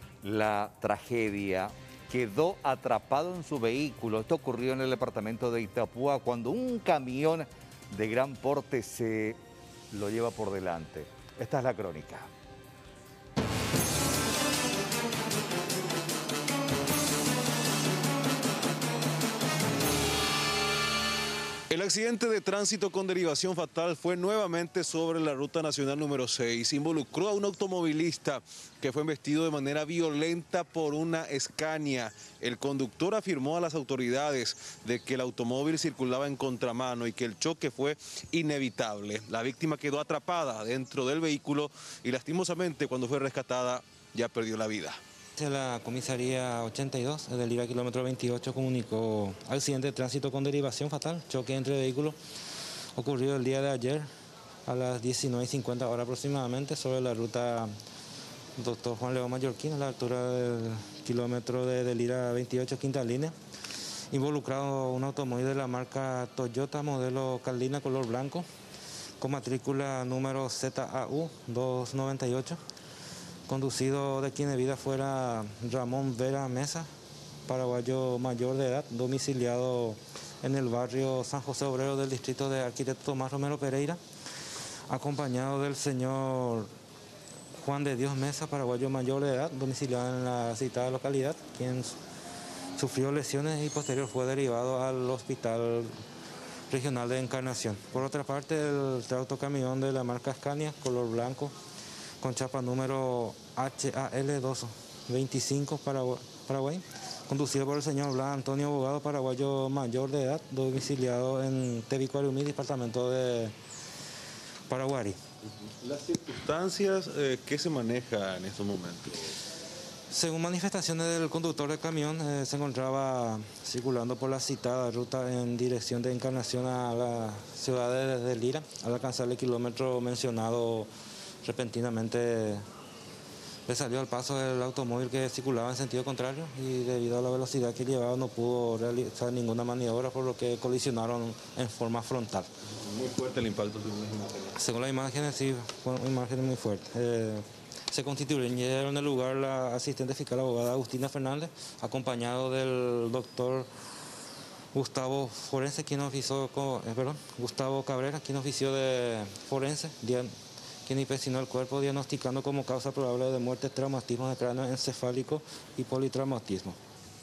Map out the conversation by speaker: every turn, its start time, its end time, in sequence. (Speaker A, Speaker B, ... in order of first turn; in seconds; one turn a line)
Speaker A: 0.2-9.4
Speaker A: 9.9-12.3
Speaker B: 21.7-45.0
Speaker C: 45.4-52.2
Speaker C: 53.0-54.0
Speaker C: 54.7-57.7
Speaker C: 58.6-63.3
Speaker C: 64.1-68.5
Speaker C: 69.2-72.6
Speaker C: 73.5-76.9
Speaker C: 77.5-84.0
Speaker C: 84.9-86.7
Speaker C: 87.5-92.0
Speaker C: 92.8-95.9
Speaker C: 96.7-101.5
Speaker C: 102.2-113.5
Speaker C: 114.7-115.2
Speaker B: 115.8-119.3
Speaker C: 120.1-130.9
Speaker C: 131.4-132.6
Speaker C: 133.7-142.5
Speaker B: 142.8-144.6
Speaker C: 144.6-153.7
Speaker C: 154.7-160.3
Speaker C: 160.8-166.8